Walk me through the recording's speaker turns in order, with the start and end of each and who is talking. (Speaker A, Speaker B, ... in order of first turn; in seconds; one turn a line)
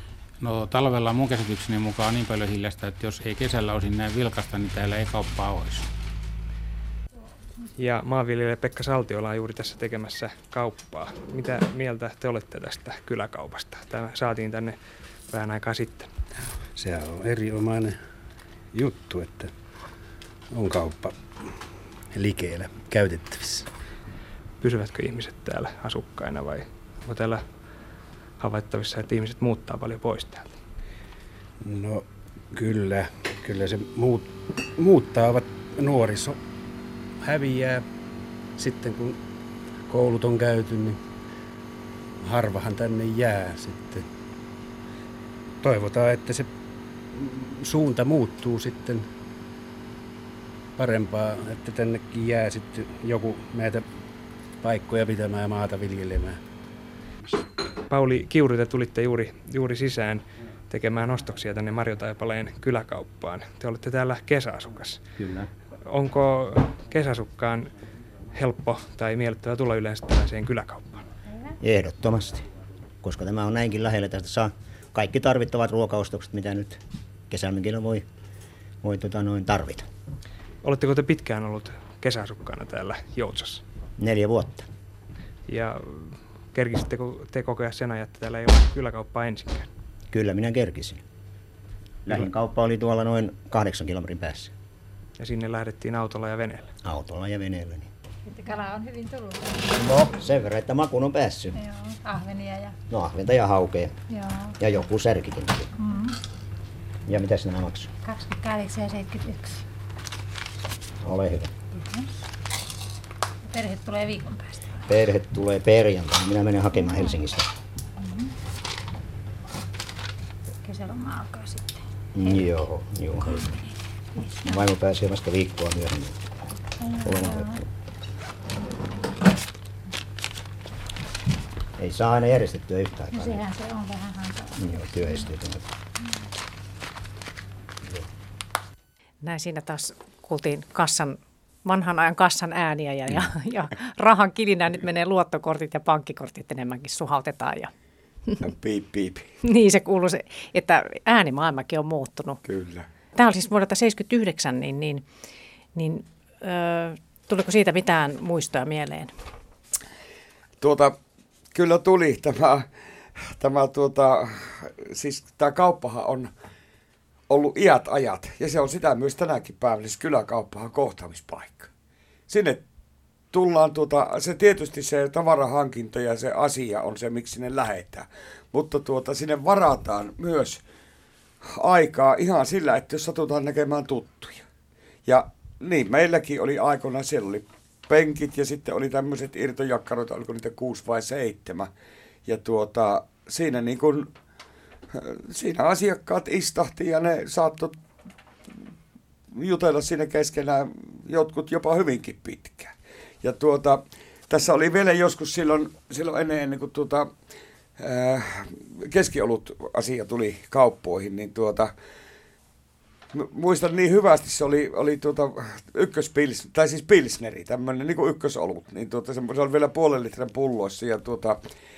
Speaker A: 0.4-5.9
Speaker B: 7.8-14.8
Speaker B: 15.3-16.1
Speaker C: 16.7-18.0
Speaker C: 18.7-19.5
Speaker C: 20.5-21.5
Speaker C: 22.1-23.7
Speaker B: 24.6-27.4
Speaker B: 28.4-30.6
Speaker C: 31.6-36.4
Speaker C: 37.2-37.8
Speaker C: 38.6-39.2
Speaker C: 39.9-41.0
Speaker C: 42.2-44.0
Speaker C: 45.6-46.5
Speaker C: 47.1-49.1
Speaker C: 50.8-53.9
Speaker C: 54.6-56.4
Speaker B: 57.9-65.0
Speaker D: 65.2-65.5
Speaker B: 65.9-67.7
Speaker B: 68.3-71.0
Speaker D: 71.6-72.5
Speaker D: 73.0-78.1
Speaker D: 78.8-79.9
Speaker B: 80.6-83.6
Speaker D: 84.0-84.7
Speaker B: 85.5-89.7
Speaker D: 90.1-91.0
Speaker D: 92.0-94.5
Speaker B: 95.2-96.7
Speaker D: 96.8-97.9
Speaker E: 98.4-99.1
Speaker D: 99.6-101.6
Speaker E: 102.0-102.7
Speaker D: 102.9-104.0
Speaker D: 104.6-105.7
Speaker D: 107.1-107.9
Speaker E: 108.1-109.5
Speaker D: 111.0-111.5
Speaker E: 113.5-114.5
Speaker D: 114.8-117.5
Speaker E: 120.6-121.7
Speaker D: 122.1-123.6
Speaker D: 124.4-126.2
Speaker D: 127.0-127.7
Speaker D: 131.8-133.4
Speaker D: 134.6-135.7
Speaker F: 139.2-147.7
Speaker G: 148.4-149.2
Speaker F: 149.4-152.4
Speaker G: 152.4-152.9
Speaker F: 153.2-155.0
Speaker F: 155.7-159.1
Speaker G: 160.6-160.9
Speaker G: 161.5-166.3
Speaker G: 167.3-171.7
Speaker G: 172.3-172.6
Speaker G: 173.3-180.6
Speaker G: 181.4-184.4
Speaker G: 185.1-191.7
Speaker G: 192.2-194.1
Speaker G: 194.9-197.8
Speaker G: 199.3-207.1
Speaker G: 207.8-211.7
Speaker G: 213.1-221.4